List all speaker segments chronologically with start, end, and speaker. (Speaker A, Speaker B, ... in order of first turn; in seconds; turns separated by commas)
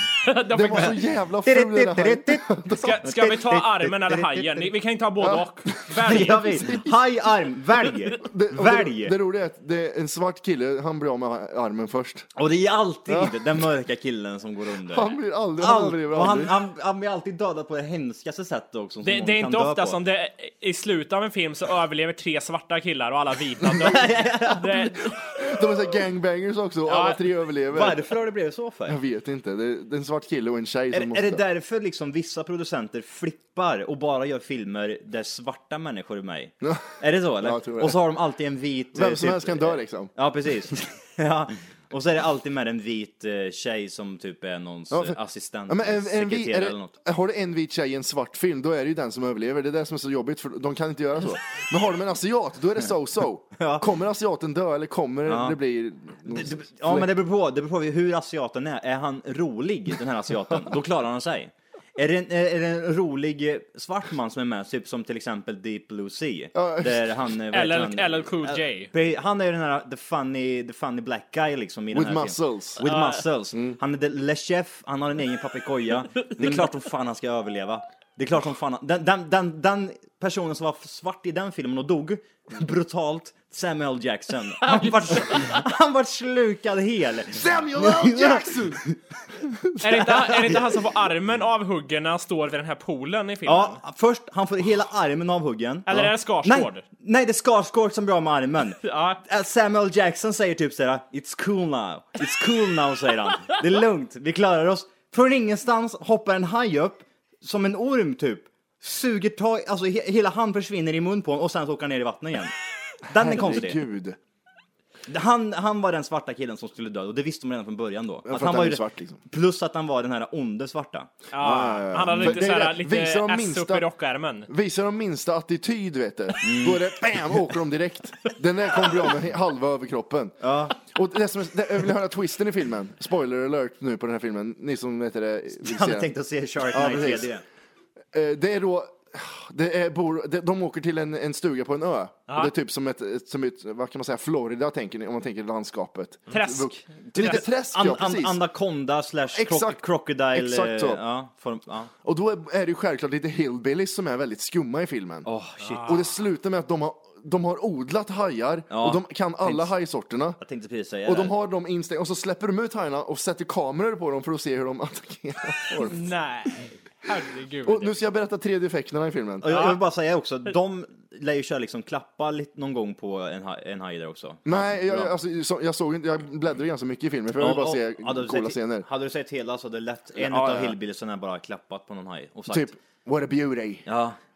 Speaker A: 0.2-1.1, Speaker B: 0.5-3.0, Speaker C: 1.4-4.7, Speaker A: 2.7-6.7, Speaker B: 5.2-6.9, Speaker C: 6.0-9.2, Speaker B: 8.2-12.3, Speaker C: 12.3-20.0, Speaker B: 13.1-13.4, Speaker B: 14.9-16.5, Speaker A: 19.0-25.2, Speaker C: 23.7-24.9, Speaker B: 25.3-28.1, Speaker A: 26.9-27.2, Speaker C: 27.7-29.0, Speaker B: 28.9-31.4, Speaker C: 30.9-47.0, Speaker B: 36.6-36.9, Speaker B: 37.4-38.0, Speaker B: 38.9-40.1, Speaker B: 44.9-57.1, Speaker C: 53.6-53.9, Speaker C: 55.2-55.6, Speaker C: 56.2-89.0, Speaker B: 66.5-67.2, Speaker A: 67.5-68.9, Speaker B: 71.9-72.8, Speaker A: 72.8-73.2, Speaker B: 73.5-73.8, Speaker A: 84.7-85.5, Speaker B: 87.3-88.8, Speaker B: 89.5-90.2, Speaker A: 89.8-93.8, Speaker C: 90.3-90.6, Speaker C: 93.5-113.8, Speaker A: 95.9-96.8, Speaker A: 98.8-99.2, Speaker B: 113.1-114.2, Speaker C: 115.1-121.1, Speaker B: 118.2-119.2, Speaker A: 121.3-124.5, Speaker B: 121.4-123.8, Speaker C: 122.1-122.4, Speaker B: 124.5-136.1, Speaker C: 126.4-126.9, Speaker C: 130.4-130.8, Speaker C: 135.6-137.4, Speaker B: 136.7-137.3, Speaker B: 138.1-148.4, Speaker A: 146.3-147.4, Speaker C: 147.1-151.9, Speaker B: 149.3-151.0, Speaker B: 152.0-155.3, Speaker C: 155.2-156.1, Speaker A: 155.6-156.0, Speaker B: 155.8-160.4, Speaker C: 158.7-159.7, Speaker C: 160.4-161.3, Speaker B: 161.1-166.1, Speaker A: 165.8-167.9, Speaker B: 167.6-169.5, Speaker C: 169.4-175.1, Speaker A: 169.5-169.8, Speaker B: 174.4-178.8, Speaker C: 177.4-182.7, Speaker B: 180.2-180.8, Speaker B: 182.5-183.8, Speaker C: 183.8-184.2